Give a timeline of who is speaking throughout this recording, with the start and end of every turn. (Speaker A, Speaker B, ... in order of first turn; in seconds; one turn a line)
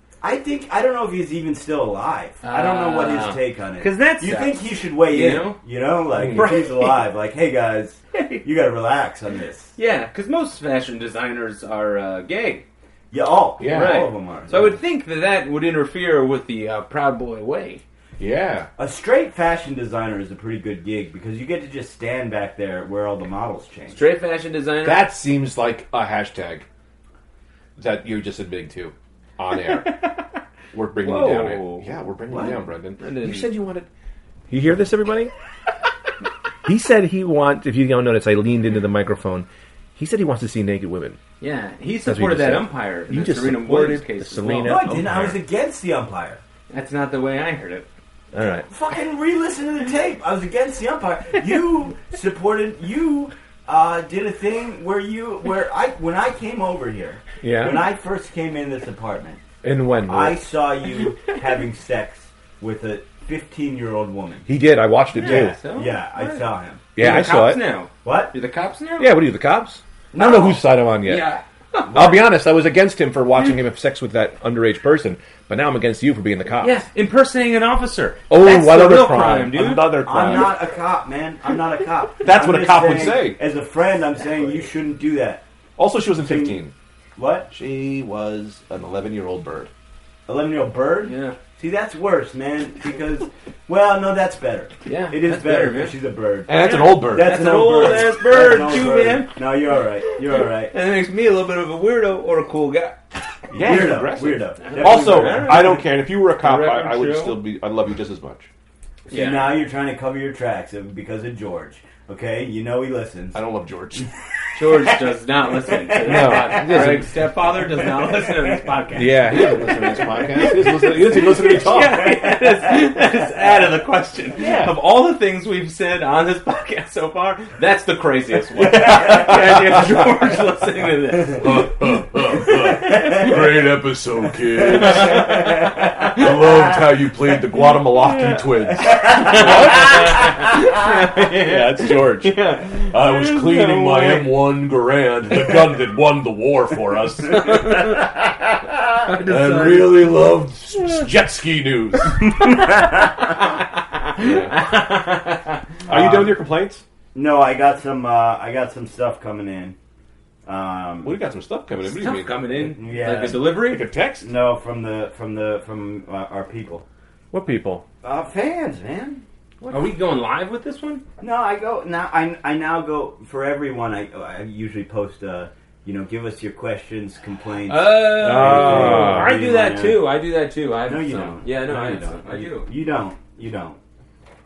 Speaker A: 0.2-9.7
Speaker B: 2.4-5.6
Speaker C: 6.1-6.6
Speaker B: 6.3-6.9
Speaker B: 8.1-8.4
Speaker B: 9.8-12.6
Speaker A: 13.1-14.8
Speaker C: 13.6-14.1
Speaker B: 13.7-17.8
Speaker C: 18.2-18.7
Speaker A: 18.8-24.0
Speaker B: 23.9-25.1
Speaker C: 24.8-26.6
Speaker C: 27.8-30.0
Speaker B: 29.6-30.2
Speaker C: 30.7-33.9
Speaker B: 31.0-33.5
Speaker C: 34.5-35.3
Speaker C: 36.6-41.2
Speaker B: 41.4-44.8
Speaker C: 42.0-45.4
Speaker A: 44.6-46.4
Speaker B: 46.7-47.9
Speaker C: 48.3-48.7
Speaker A: 48.7-59.4
Speaker C: 57.4-57.8
Speaker C: 59.6-60.4
Speaker A: 60.0-64.5
Speaker C: 64.5-65.6
Speaker B: 65.1-69.1
Speaker A: 65.2-66.8
Speaker C: 67.0-67.6
Speaker A: 68.0-68.3
Speaker C: 69.0-71.3
Speaker A: 70.1-70.6
Speaker B: 71.0-72.2
Speaker C: 71.9-76.8
Speaker B: 76.6-80.4
Speaker C: 78.3-80.6
Speaker A: 80.0-85.4
Speaker C: 82.2-83.4
Speaker C: 85.8-86.7
Speaker A: 86.2-86.6
Speaker A: 87.2-87.5
Speaker C: 87.5-89.7
Speaker A: 90.3-100.7
Speaker B: 91.1-91.4
Speaker B: 94.8-96.0
Speaker C: 96.5-97.5
Speaker B: 96.6-99.3
Speaker B: 100.7-103.0
Speaker C: 103.5-108.5
Speaker A: 103.6-105.8
Speaker B: 104.7-107.4
Speaker A: 109.1-113.4
Speaker B: 109.1-109.5
Speaker C: 113.3-114.1
Speaker B: 114.5-119.5
Speaker A: 114.6-114.9
Speaker A: 115.7-117.1
Speaker C: 116.0-117.2
Speaker A: 117.8-118.6
Speaker C: 118.9-122.1
Speaker A: 120.0-120.6
Speaker B: 120.4-131.6
Speaker C: 124.4-124.8
Speaker C: 128.7-129.8
Speaker C: 131.4-140.5
Speaker B: 134.8-136.1
Speaker A: 135.0-135.8
Speaker B: 137.9-144.3
Speaker A: 139.0-139.5
Speaker C: 141.2-148.1
Speaker B: 147.4-148.1
Speaker B: 149.0-150.1
Speaker C: 149.1-152.8
Speaker A: 152.4-153.2
Speaker B: 152.9-155.7
Speaker C: 154.2-154.6
Speaker A: 155.9-156.4
Speaker C: 155.9-156.8
Speaker A: 157.1-159.8
Speaker A: 160.4-161.2
Speaker C: 161.0-164.3
Speaker B: 161.8-163.9
Speaker A: 162.7-163.6
Speaker A: 164.2-166.8
Speaker C: 167.3-167.8
Speaker A: 168.0-169.2
Speaker C: 169.6-169.9
Speaker B: 169.7-171.0
Speaker A: 171.2-180.1
Speaker B: 177.7-182.7
Speaker C: 178.1-179.3
Speaker A: 180.8-183.8